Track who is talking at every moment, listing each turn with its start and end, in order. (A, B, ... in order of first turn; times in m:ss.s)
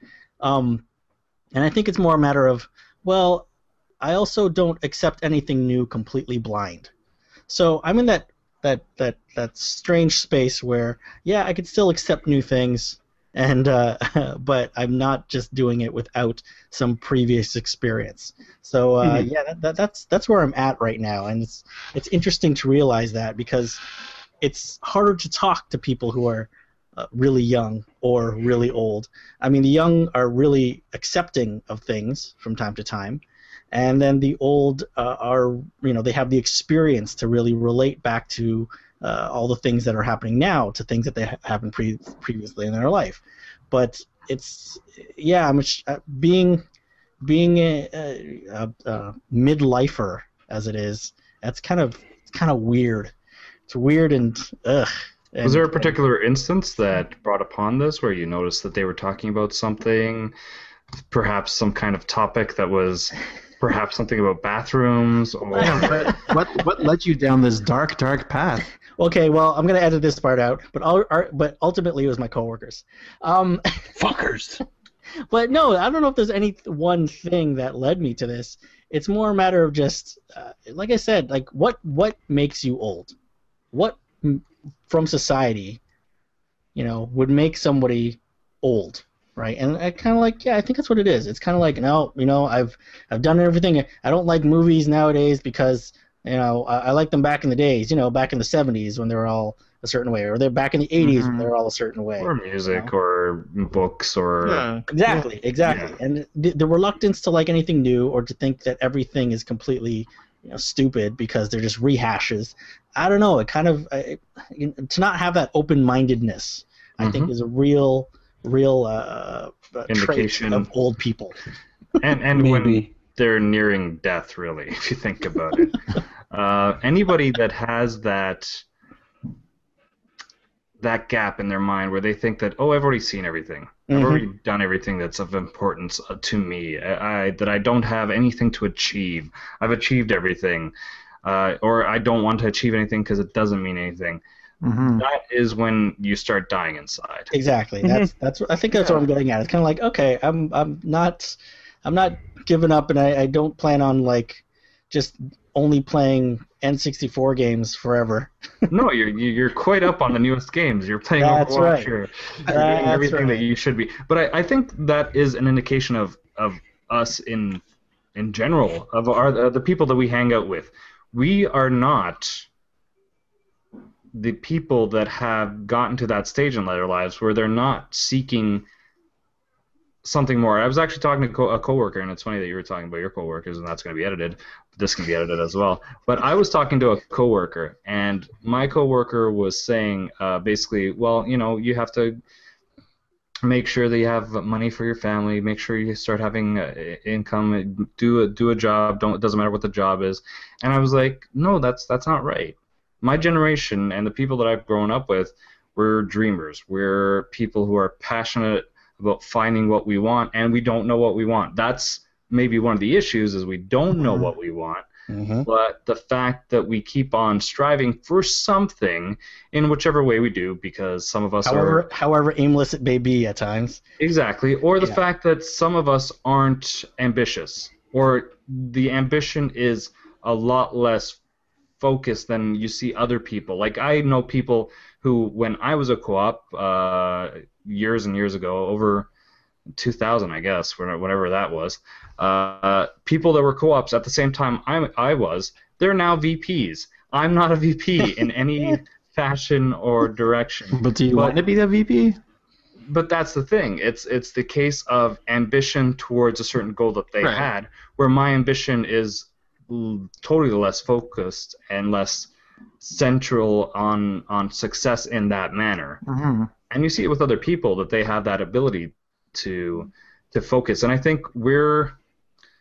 0:00.4-0:00.8 A
0:01.5-0:03.5 A
0:04.0-0:06.9 A
0:07.5-0:23.8 A
0:19.0-0:19.3 B
0:24.4-0:46.6 A
0:47.2-0:53.1 A
0:53.7-0:56.0 A
0:55.4-1:00.3 C
1:01.1-1:06.2 C
1:05.5-1:06.3 A
1:05.6-1:08.7 D
1:09.0-1:13.9 A
1:14.0-1:14.6 B
1:15.3-1:23.2 A
1:23.7-1:25.8 A
1:26.8-1:42.9 A
1:41.0-1:41.5 D
1:42.2-1:44.7 C
1:44.4-1:45.3 D
1:44.9-2:01.4 A
1:45.6-1:46.0 C
1:57.0-1:57.3 C
1:59.9-2:00.7 C
2:02.0-2:08.6 C
2:02.4-2:02.9 B
2:10.8-2:20.7 C
2:13.9-2:14.3 A
2:21.2-2:24.2 C
2:24.6-2:25.0 D
2:25.0-2:27.3 C
2:27.3-2:38.7 A
2:27.8-2:28.1 B
2:38.7-2:47.6 C
2:41.2-2:41.9 A
2:42.5-2:43.0 B
2:42.5-2:43.5 A
2:48.2-2:52.5 C
2:54.1-2:58.6 C
3:00.0-3:12.2 C
3:13.4-3:34.9 C
3:35.1-3:35.5 A
3:35.4-3:41.8 C
3:41.4-3:43.8 A
3:44.0-3:51.2 C
3:51.8-3:59.1 C
3:59.8-4:11.4 C
4:10.7-4:12.2 D
4:12.9-4:22.3 C
4:17.2-4:17.5 D
4:22.8-4:26.0 C
4:26.0-4:26.5 D
4:26.7-4:32.0 C